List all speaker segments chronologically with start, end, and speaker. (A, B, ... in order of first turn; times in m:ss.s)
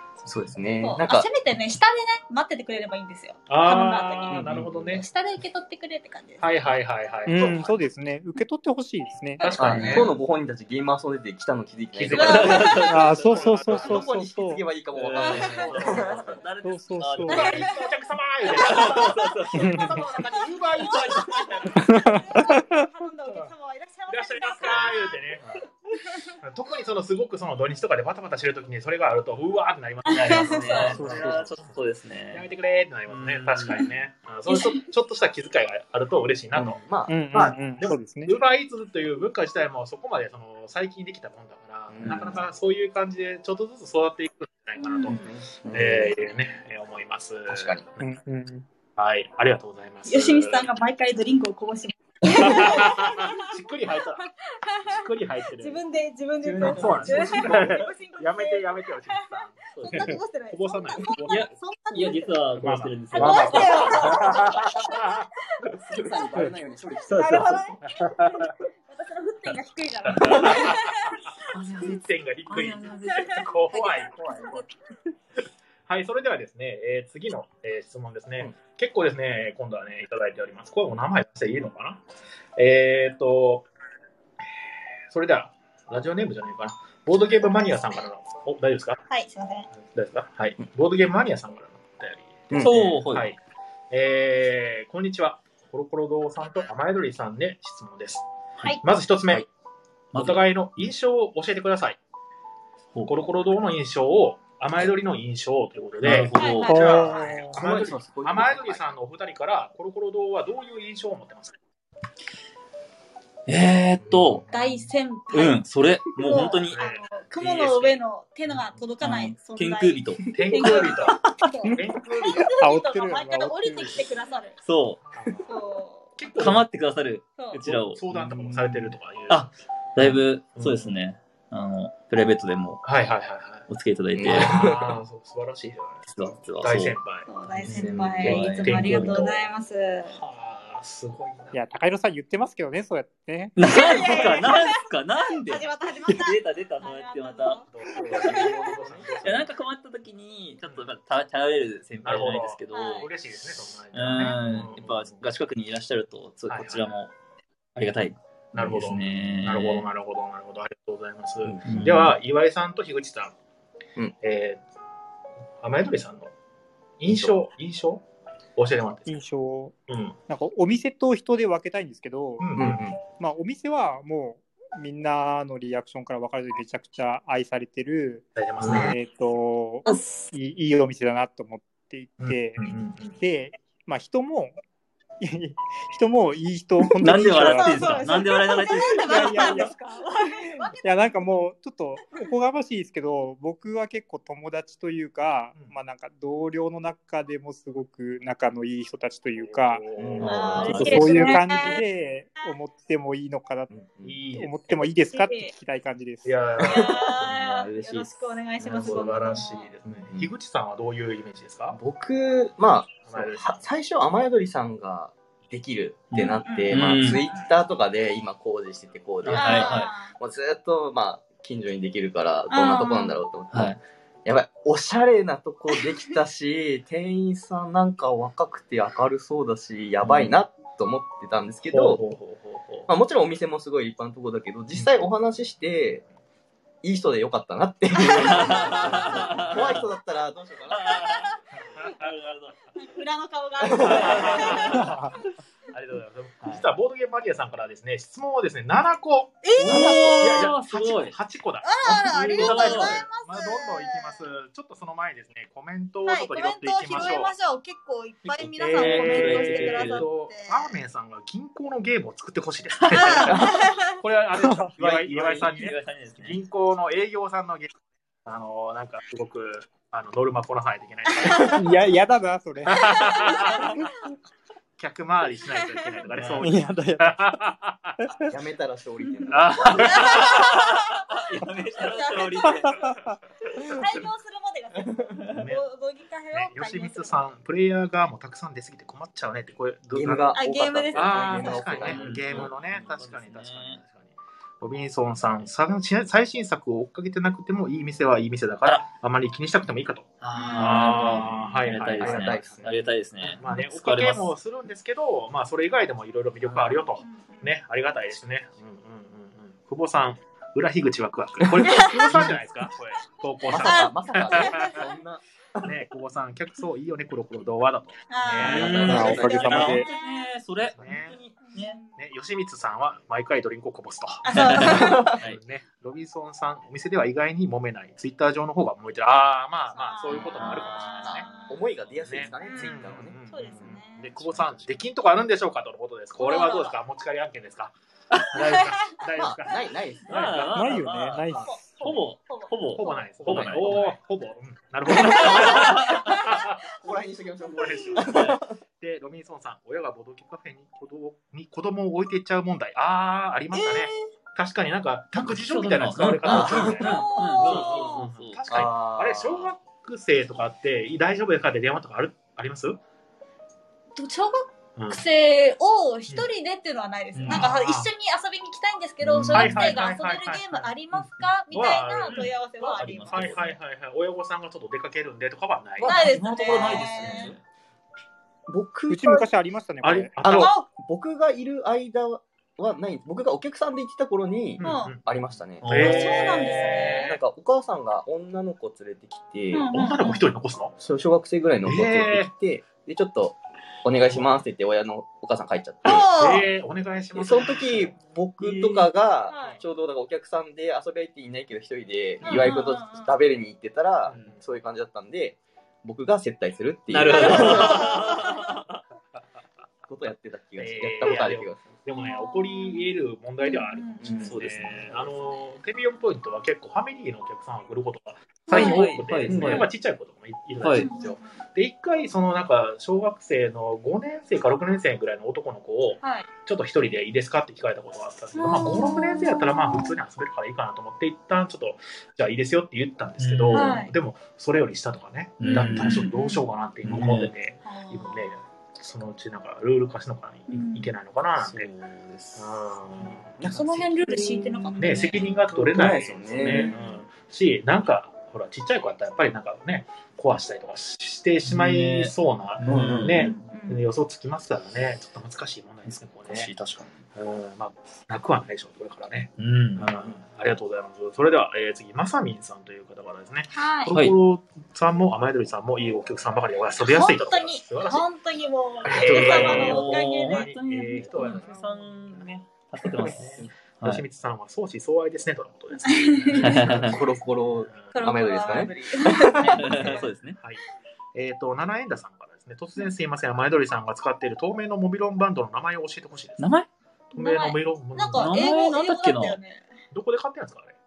0:00.2-0:01.3 A
0:00.8-0:06.4 B
0:03.5-0:05.0 C
0:04.3-0:04.9 A
0:06.4-0:07.7 C
0:07.3-0:09.5 D
0:09.4-0:09.8 B
0:09.4-0:10.1 C
0:09.6-0:12.8 A
0:09.6-0:10.0 E
0:11.9-0:14.1 C
0:12.1-0:13.3 B
0:12.2-0:13.2 E
0:12.9-0:14.6 D
0:13.6-0:16.4 A
0:15.0-0:17.8 E
0:15.2-0:16.3 B
0:15.3-0:16.2 C
0:16.6-0:17.5 D
0:17.3-0:22.2 C
0:17.3-0:17.9 B
0:18.5-0:26.4 B
0:18.5-0:20.1 E
0:19.5-0:19.9 D
0:20.9-0:21.6 E
0:21.8-0:22.8 D
0:24.1-0:25.6 C
0:26.4-0:31.7 C
0:30.1-0:31.0 B
0:30.1-0:32.5 E
0:30.9-0:31.4 D
0:32.3-0:36.8 C
0:33.1-0:33.9 E
0:34.5-0:34.8 B
0:36.6-0:37.3 A
0:37.1-0:38.4 D
0:37.3-0:48.0 C
0:41.9-0:42.4 A
0:44.8-0:45.3 B
0:45.1-0:46.2 A
0:47.5-0:47.8 A
0:48.0-0:48.7 D
0:49.0-0:50.7 C
0:50.1-0:53.6 B
0:52.3-0:54.2 C
0:54.3-1:02.4 B
0:54.8-0:55.8 C
0:56.4-0:57.8 E
0:56.6-1:01.5 C
0:59.8-1:00.2 E
1:01.3-1:04.4 E
1:02.6-1:05.3 C
1:03.1-1:05.2 B
1:05.7-1:07.5 A
1:07.1-1:07.6 E
1:07.1-1:11.3 B
1:08.0-1:08.5 C
1:10.0-1:11.2 C
1:11.5-1:14.6 E
1:11.8-1:14.6 C
1:13.1-1:13.4 B
1:14.4-1:14.6 B
1:15.9-1:22.0 C
1:22.6-1:23.7 C
1:25.1-1:29.0 C
1:29.1-1:29.7 B
1:29.8-1:33.4 C
1:32.5-1:33.0 A
1:32.6-1:33.3 E
1:33.9-1:38.2 C
1:38.8-1:39.5 C
1:40.1-1:40.4 E
1:40.1-1:42.0 C
1:43.1-1:51.6 C
1:46.0-1:46.9 E
1:46.4-1:47.4 B
1:46.7-1:47.6 D
1:47.5-1:48.9 A
1:53.5-1:54.5 E
1:54.0-1:54.7 A
1:54.5-1:55.6 B
1:55.3-1:56.8 E
1:56.2-2:04.6 B
1:56.7-1:58.0 C
1:59.0-2:01.0 E
2:00.3-2:02.5 C
2:02.6-2:04.1 D
2:04.6-2:05.0 E
2:05.1-2:05.5 C
2:05.4-2:06.2 B
2:06.2-2:06.7 C
2:06.4-2:08.8 E
2:07.6-2:09.5 C
2:09.3-2:12.8 E
2:10.0-2:10.9 C
2:12.8-2:13.7 C
2:13.7-2:14.6 E
2:14.2-2:15.0 A
2:14.2-2:16.1 C
2:16.0-2:19.3 E
2:16.6-2:19.4 C
2:17.3-2:20.2 B
2:17.8-2:18.3 A
2:20.1-2:21.6 C
2:21.5-2:23.9 D
2:23.6-2:33.1 E
2:23.7-2:24.8 B
2:25.4-2:28.8 B
2:27.7-2:29.5 C
2:32.0-2:35.2 C
2:32.7-2:33.1 B
2:33.9-2:37.1 E
2:36.5-2:36.9 C
2:37.8-2:39.9 E
2:38.5-2:43.4 C
2:41.4-2:41.8 A
2:41.6-2:42.2 E
2:44.2-2:44.6 C
2:45.6-2:46.3 C
2:47.0-2:48.0 C
2:47.1-2:47.4 A
2:48.6-2:49.2 C
2:49.1-2:49.7 D
2:49.9-2:50.2 C
2:50.3-3:04.6 D
2:52.4-2:52.8 C
2:52.6-2:53.0 A
2:58.4-2:59.0 C
3:02.2-3:03.2 C
3:05.2-3:08.0 D
3:07.0-3:09.7 E
3:07.1-3:10.8 B
3:09.0-3:09.7 D
3:10.8-3:19.8 D
3:19.4-3:20.8 C
3:20.0-3:21.0 A
3:20.2-3:21.7 E
3:20.2-3:21.8 B
3:20.7-3:23.7 D
3:23.7-3:24.2 A
3:24.0-3:24.7 C
3:24.3-3:26.4 D
3:25.0-3:25.5 B
3:26.2-3:27.3 C
3:26.6-3:28.0 A
3:26.7-3:29.7 B
3:27.4-3:28.1 E
3:28.6-3:31.8 C
3:28.6-3:29.3 A
3:29.9-3:30.3 A
3:31.7-3:52.0 A
3:33.1-3:33.6 C
3:36.1-3:37.3 E
3:36.4-3:37.5 B
3:39.2-3:40.0 E
3:39.3-3:39.7 C
3:39.4-3:40.1 B
3:42.5-3:43.2 B
3:43.5-3:43.8 E
3:50.0-3:50.4 C
3:51.7-3:52.9 C
3:52.9-3:56.0 A
3:56.8-4:01.4 A
3:57.9-3:59.6 B
3:58.2-3:59.8 E
4:00.7-4:01.3 E
4:00.8-4:01.4 B
4:01.8-4:02.1 C
4:01.8-4:02.6 E
4:02.8-4:05.0 B
4:03.6-4:04.1 A
4:03.9-4:05.1 C
4:04.1-4:04.8 E
4:05.7-4:17.3 C
4:09.4-4:10.2 B
4:09.6-4:11.2 E
4:09.7-4:10.4 A
4:11.6-4:14.2 B
4:11.9-4:13.0 E
4:16.0-4:20.7 B
4:18.3-4:20.1 E
4:18.5-4:27.7 C
4:22.9-4:24.0 B
4:23.3-4:23.6 A
4:24.4-4:24.7 D
4:24.8-4:26.4 E
4:28.2-4:31.8 C
4:31.1-4:31.6 B
4:31.5-4:33.9 D
4:32.7-4:33.8 C
4:32.8-4:33.8 B
4:34.8-4:38.0 C
4:35.5-4:36.0 B
4:36.1-4:36.5 E
4:36.4-4:37.4 D
4:38.0-4:38.3 D
4:38.3-4:40.2 A
4:39.3-4:40.5 C
4:39.8-4:42.9 B
4:39.8-4:43.0 E
4:42.7-4:43.7 D
4:43.7-4:47.3 B
4:45.3-4:45.6 C
4:46.3-4:50.4 C
4:49.9-4:52.5 A
4:50.4-4:51.9 B
4:50.9-5:02.7 C
4:51.8-4:53.8 E
5:00.2-5:04.3 E
5:00.4-5:01.3 B
5:02.0-5:02.9 A
5:03.2-5:14.8 C
5:07.0-5:07.5 B
5:11.4-5:12.4 A
5:11.6-5:12.1 B
5:13.5-5:15.7 A
5:13.5-5:14.9 B
5:15.6-5:19.8 C
5:18.1-5:20.3 B
5:18.4-5:21.8 E
5:18.6-5:19.2 A
5:18.9-5:19.9 D
5:20.7-5:21.2 C
5:21.5-5:22.0 B
5:22.0-5:31.3 C
5:24.3-5:25.2 B
5:24.3-5:25.4 E
5:24.8-5:25.2 A
5:29.7-5:31.7 B
5:30.1-5:30.4 A
5:30.4-5:30.9 E
5:31.0-5:33.2 A
5:32.0-5:37.7 C
5:32.4-5:34.2 B
5:36.2-5:36.8 B
5:38.3-5:41.9 C
5:38.4-5:39.0 B
5:39.2-5:40.2 A
5:40.1-5:44.0 E
5:40.5-5:41.6 D
5:41.3-5:43.1 B
5:42.7-5:46.8 C
5:43.2-5:43.9 A
5:45.0-5:46.7 B
5:45.1-5:46.1 A
5:45.2-5:46.1 E
5:46.7-5:48.6 A
5:47.5-6:02.8 C
5:47.6-5:47.8 B
5:48.0-5:48.4 E
5:53.5-5:54.0 B
5:55.1-5:58.7 E
5:56.2-5:57.1 A
5:56.4-5:58.1 B
5:58.5-5:59.5 A
6:04.0-6:13.5 B
6:04.8-6:05.0 C
6:07.2-6:07.6 E
6:07.2-6:07.9 C
6:09.1-6:09.6 A
6:09.3-6:09.9 E
6:09.3-6:17.4 C
6:12.1-6:13.5 E
6:15.8-6:17.4 E
6:15.8-6:17.3 B
6:16.5-6:17.2 A
6:18.5-6:19.3 A
6:18.9-6:20.2 D
6:19.8-6:20.5 C
6:20.2-6:25.9 A
6:20.3-6:20.7 B
6:24.6-6:25.1 C
6:24.6-6:25.0 B
6:25.6-6:27.1 C
6:25.6-6:27.0 E
6:25.7-6:27.2 B
6:27.0-6:29.7 A
6:29.5-6:30.3 B
6:29.7-6:30.8 C
6:30.8-6:36.1 A
6:31.6-6:32.3 C
6:35.8-6:36.5 B
6:36.1-6:38.0 C
6:37.2-6:47.9 A
6:38.4-6:38.9 E
6:39.3-6:39.6 B
6:42.2-6:43.2 B
6:44.1-6:44.4 C
6:46.9-6:48.8 E
6:47.2-6:48.5 B
6:49.9-6:51.7 A
6:50.6-7:21.7 C
6:51.9-6:52.9 B
6:53.4-6:54.3 B
6:54.0-6:55.0 A
6:54.2-6:55.0 E
6:58.5-6:59.0 B
6:58.5-6:59.7 E
6:59.3-6:59.7 A
7:00.6-7:00.9 E
7:00.7-7:01.4 B
7:06.0-7:06.3 B
7:08.4-7:10.0 B
7:13.2-7:13.8 E
7:13.5-7:13.9 B
7:15.4-7:16.1 E
7:15.5-7:15.8 A
7:15.5-7:16.4 B
7:16.8-7:17.3 E
7:17.6-7:18.2 B
7:20.5-7:20.9 B
7:21.4-7:22.7 E
7:22.4-7:23.3 C
7:23.4-7:26.7 A
7:23.4-7:25.3 B
7:24.8-7:36.5 C
7:26.4-7:27.0 B
7:31.4-7:33.4 E
7:32.6-7:33.3 A
7:33.2-7:33.8 B
7:36.3-7:36.9 E
7:37.2-7:48.0 C
7:39.4-7:39.9 E
7:43.5-7:43.9 B
7:43.9-7:44.2 E
7:46.8-7:50.5 B
7:48.8-7:52.3 C
7:48.9-7:49.9 A
7:49.2-7:54.0 E
7:51.2-7:51.4 B
7:53.0-7:53.5 A
7:53.0-7:57.0 C
7:55.8-7:56.8 B
7:56.4-7:57.0 E
7:56.5-7:59.8 A
7:57.7-7:58.0 C
7:57.9-8:00.1 B
7:59.4-8:00.4 E
7:59.7-8:00.6 C
8:01.1-8:06.5 C
8:06.4-8:06.7 E
8:07.1-8:08.4 C
8:07.1-8:09.7 B
8:08.1-8:09.4 E
8:09.9-8:10.8 C